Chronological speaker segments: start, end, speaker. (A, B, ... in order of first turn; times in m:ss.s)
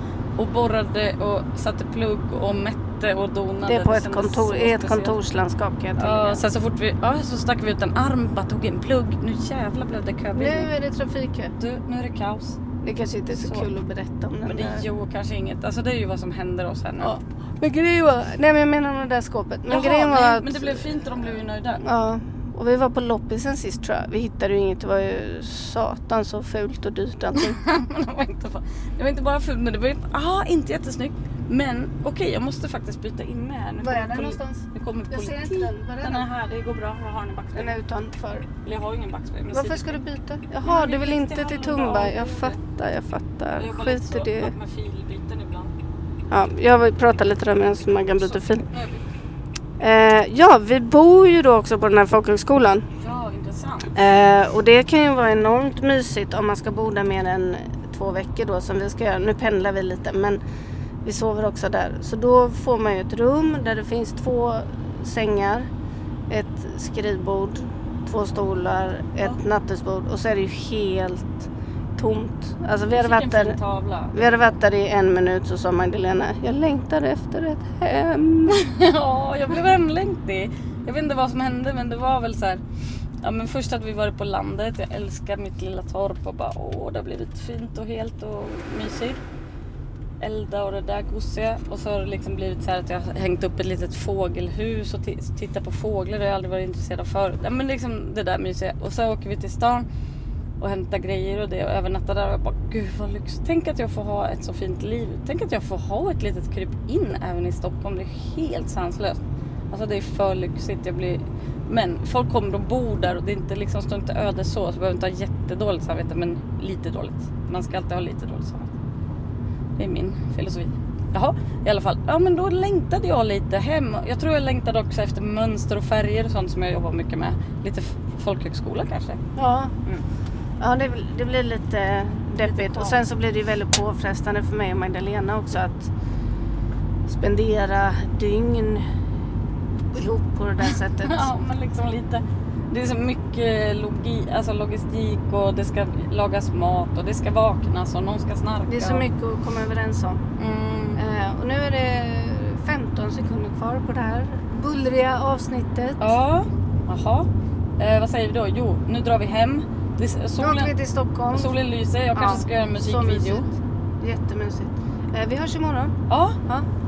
0:00.4-0:05.2 A
0:03.6-0:06.4 B
0:06.0-0:10.7 A
0:10.3-0:11.5 B
0:11.6-0:12.6 A
0:12.8-0:14.8 B
0:13.3-0:13.7 A
0:14.4-0:17.1 A
0:17.0-0:21.0 B
0:19.7-0:21.9 A
0:21.8-0:27.6 B
0:27.3-0:37.8 A
0:33.8-0:36.3 B
0:37.5-0:38.5 B
0:38.5-0:40.0 A
0:39.5-0:44.5 B
0:40.6-0:42.6 A
0:43.6-0:45.7 A
0:46.3-0:48.6 B
0:48.1-0:49.0 A
0:49.8-0:52.8 B
0:53.0-0:53.9 A
0:53.9-1:00.4 B
1:01.0-1:05.7 B
1:06.3-1:13.6 B
1:12.9-1:14.3 A
1:14.1-1:18.6 B
1:18.5-1:22.6 A
1:23.2-1:29.2 A
1:30.2-1:39.8 A
1:40.6-1:49.2 A
1:49.7-1:58.7 A
1:59.8-2:09.2 A
2:09.4-2:09.7 B
2:10.6-2:15.9 B
2:12.4-2:13.0 A
2:17.1-2:18.8 B
2:19.9-2:21.3 B
2:20.7-2:29.1 A
2:28.7-2:30.2 B
2:30.4-2:31.0 A
2:31.0-2:36.2 B
2:36.0-2:37.3 A
2:37.8-2:40.7 A
2:40.4-2:41.6 B
2:41.3-2:43.4 A
2:42.2-2:43.5 B
2:44.0-2:45.9 B
2:46.1-2:46.4 A